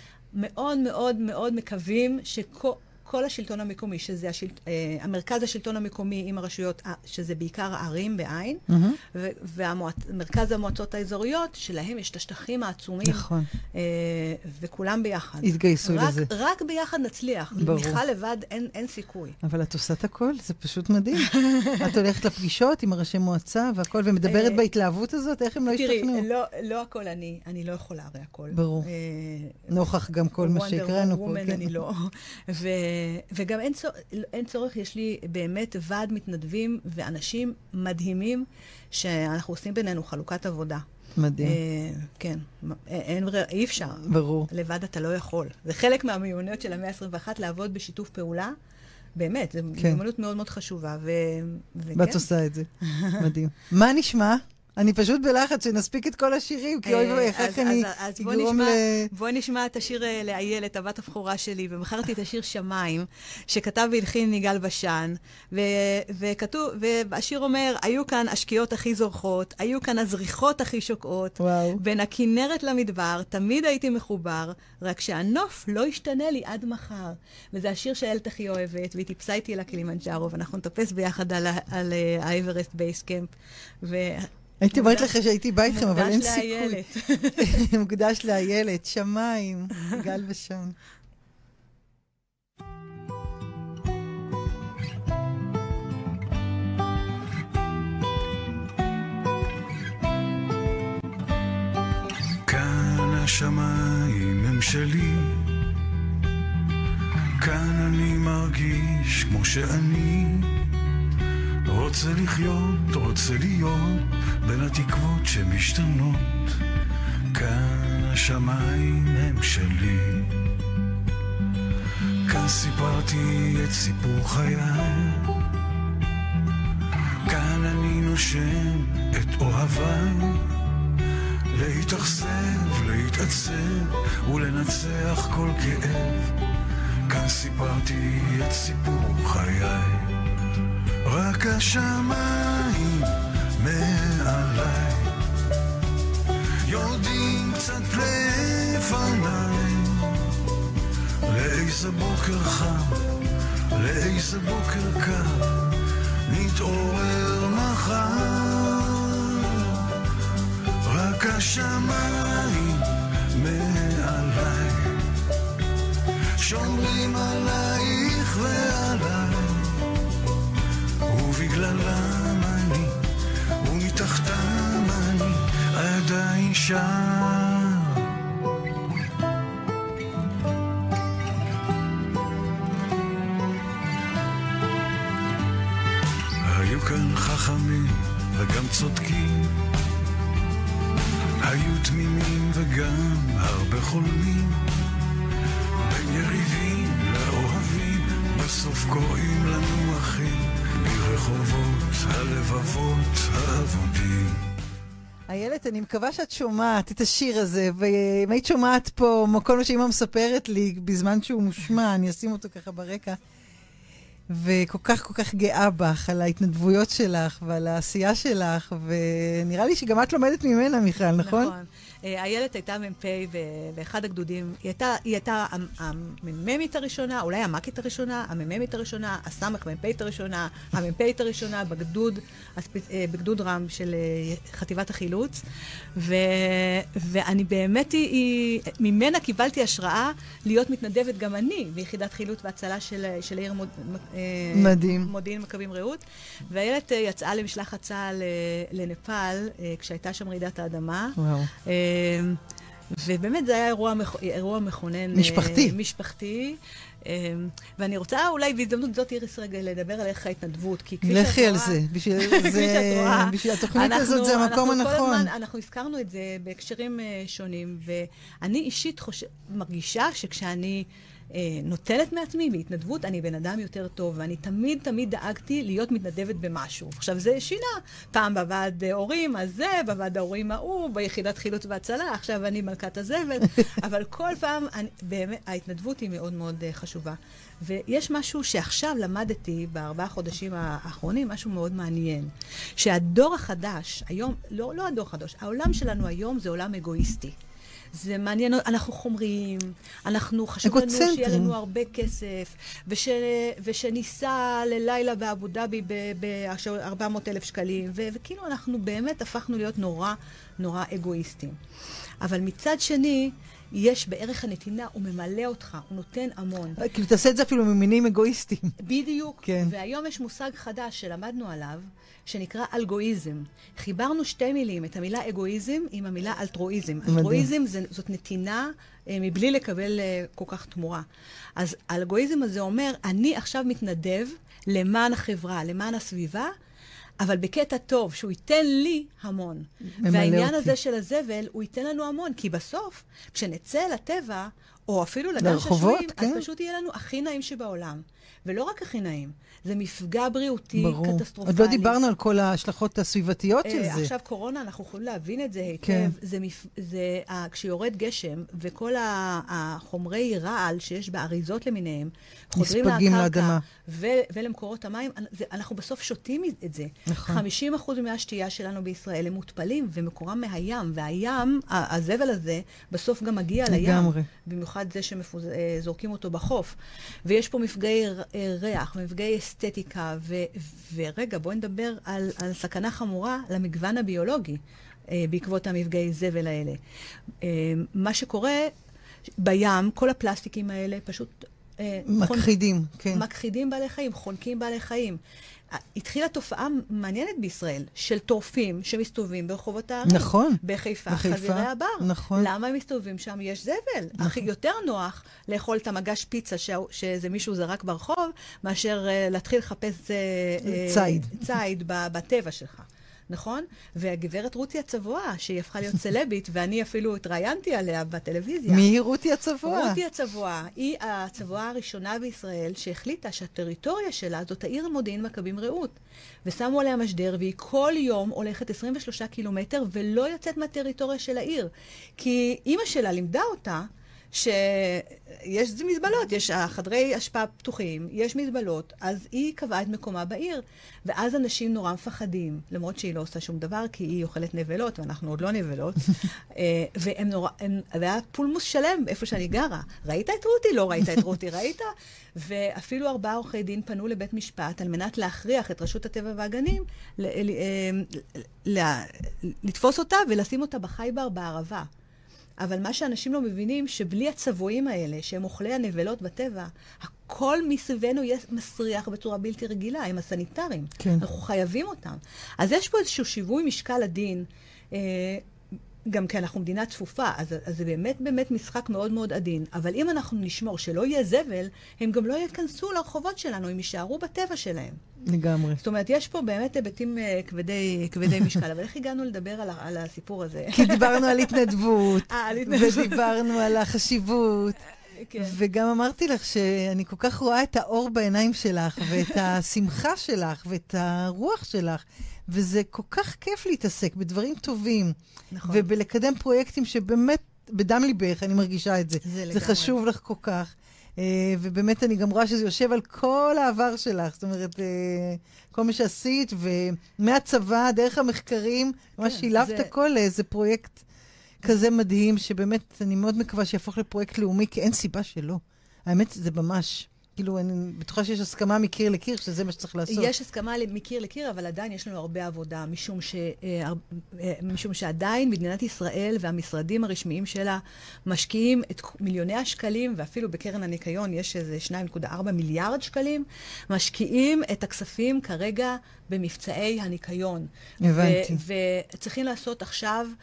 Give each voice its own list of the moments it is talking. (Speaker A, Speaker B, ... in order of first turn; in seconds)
Speaker A: 0.3-19.4, 21.2-21.9, 24.2-24.6, 25.7-29.8, 30.4-40.8, 41.4-48.5, 49.1-52.2, 52.8-53.2, 56.8-87.6, 221.2-235.4, 235.9-297.3, 297.9-311.6, 312.2-316.8, 318.8-331.1, 331.6-336.5, 337.2-352.0, 353.6-386.8, 387.4-388.7, 389.4-392.5, 393.1-395.2, 395.7-418.9, 419.6-461.9, 462.6-475.4, 476.1-485.0, 485.8-493.7, 495.1-495.6, 505.5-505.9, 509.2-510.0, 519.2-519.9, 530.1-550.3
Speaker B: 8.7-9.0, 13.0-13.5, 15.4-16.3, 17.6-18.0, 19.4-26.2, 28.5-28.9, 29.7-31.8, 41.2-41.6, 44.0-44.5, 51.9-59.1, 71.4-71.8, 84.6-86.8, 87.4-90.8, 205.3-213.2, 214.3-221.5, 244.5-245.1, 251.2-251.5, 255.1-255.7, 261.0-265.3, 300.6-301.5, 316.8-318.8, 319.4-319.7, 327.1-327.5, 340.0-340.7, 345.4-346.4, 350.8-354.1, 355.8-356.1, 362.6-363.6, 367.1-367.4, 373.7-374.3, 392.1-393.2, 400.0-402.5, 410.6-411.4, 418.7-420.0, 471.0-471.2, 485.2-485.8, 490.7-494.8, 495.4-505.1, 505.7-521.0, 521.6-530.3, 548.0-548.6
Speaker C: 102.4-105.5, 107.4-110.7, 111.7-116.6, 117.3-120.4, 122.2-125.4, 127.2-130.6, 131.5-136.3, 137.1-140.2, 141.0-145.2, 146.6-150.3, 151.3-153.2, 153.7-155.8, 156.3-159.8, 160.8-165.1, 166.3-169.9, 171.1-173.0, 173.6-178.1, 186.4-189.6, 191.4-194.7, 195.8-204.4